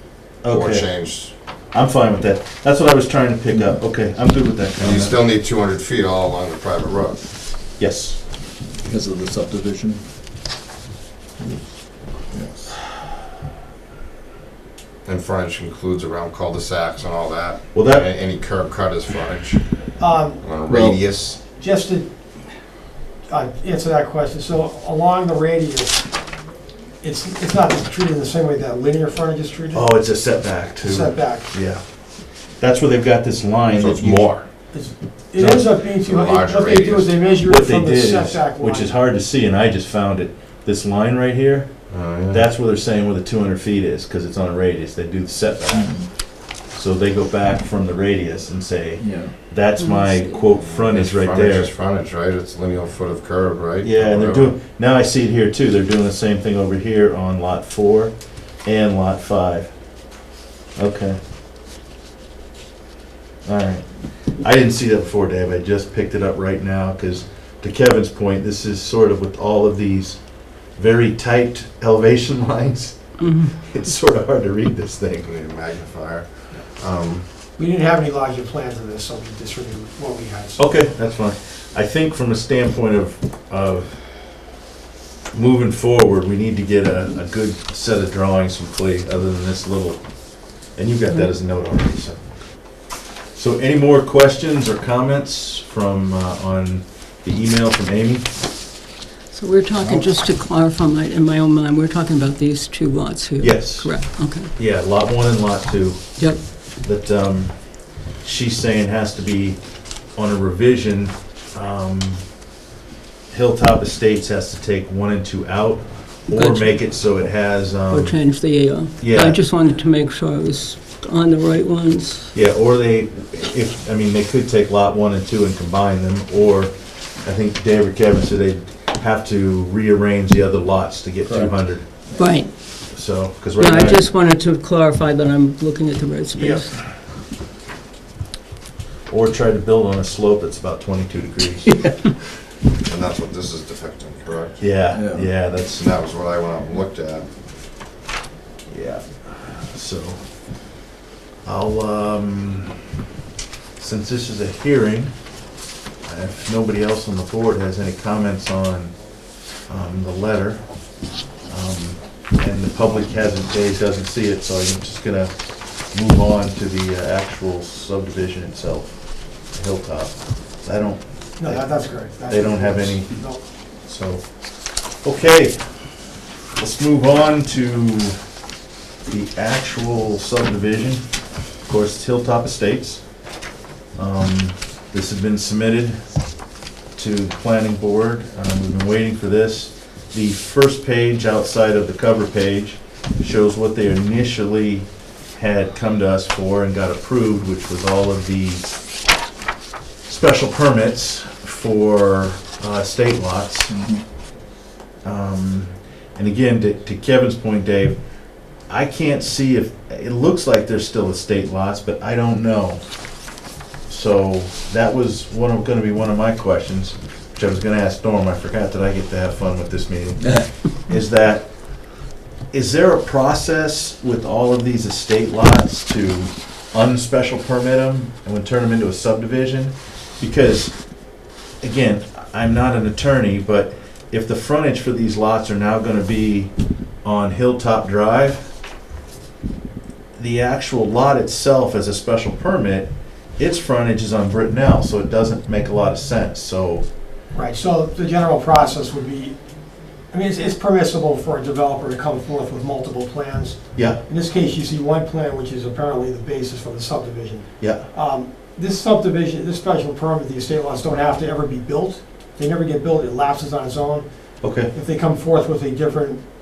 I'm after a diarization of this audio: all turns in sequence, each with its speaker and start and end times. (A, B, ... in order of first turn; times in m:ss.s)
0:00.4-0:00.9 A
0:00.4-0:01.3 B
0:01.7-0:05.2 A
0:03.5-0:03.8 C
0:04.8-0:07.3 B
0:07.8-0:08.2 A
0:08.8-0:10.0 C
0:12.3-0:12.7 C
0:15.0-0:21.4 B
0:17.7-0:18.1 A
0:20.0-0:20.5 D
0:20.6-0:21.0 C
0:21.5-0:22.1 D
0:23.3-0:26.0 D
0:27.0-0:29.9 D
0:29.7-0:31.8 A
0:30.8-0:31.5 D
0:32.6-0:34.3 A
0:33.7-0:34.5 B
0:34.7-0:38.9 D
0:35.4-0:35.7 A
0:36.0-0:37.2 B
0:37.4-0:41.7 A
0:41.9-0:42.5 B
0:42.3-0:46.1 A
0:45.7-0:46.1 C
0:46.7-0:51.7 A
0:49.0-0:49.3 C
0:49.8-0:50.3 E
0:50.5-0:54.5 B
0:53.8-0:58.1 A
0:58.6-0:59.7 A
1:00.8-1:01.2 A
1:03.4-1:03.8 A
1:04.4-1:15.3 A
1:13.2-1:13.6 E
1:15.2-1:17.3 B
1:17.6-1:20.8 D
1:20.6-1:24.0 A
1:25.3-1:32.8 A
1:33.3-1:38.3 A
1:39.3-1:44.5 E
1:39.7-1:40.1 A
1:43.4-1:52.2 A
1:53.3-1:59.4 A
1:56.3-1:56.9 E
1:57.9-2:02.3 E
2:02.3-2:12.0 A
2:11.2-2:11.6 C
2:12.1-2:12.3 C
2:12.2-2:12.5 E
2:12.9-2:14.0 A
2:13.6-2:16.8 E
2:16.4-2:16.7 A
2:19.1-2:22.1 A
2:22.8-2:24.7 B
2:24.6-2:25.8 A
2:24.9-2:25.3 C
2:25.6-2:27.3 B
2:28.7-2:30.2 A
2:31.4-2:32.8 A
2:33.8-2:35.1 A
2:36.0-2:39.0 A
2:39.7-2:40.6 A
2:41.4-2:45.3 A
2:45.8-2:53.3 A
2:51.4-2:53.4 D
2:53.8-2:56.0 A
2:56.6-2:58.2 A
2:59.1-3:01.0 A
3:01.6-3:03.0 A
3:04.0-3:06.0 A
3:06.9-3:18.7 A
3:20.1-3:23.7 A
3:23.7-3:24.0 C
3:25.0-3:28.0 A
3:28.7-3:32.8 A
3:33.9-3:51.0 A
3:51.6-3:56.5 A
3:57.0-3:58.5 A
4:00.2-4:06.8 A
4:07.3-4:09.4 D
4:10.1-4:24.0 D
4:13.7-4:14.0 A
4:17.6-4:17.8 A
4:24.4-4:24.7 A
4:24.7-4:26.2 D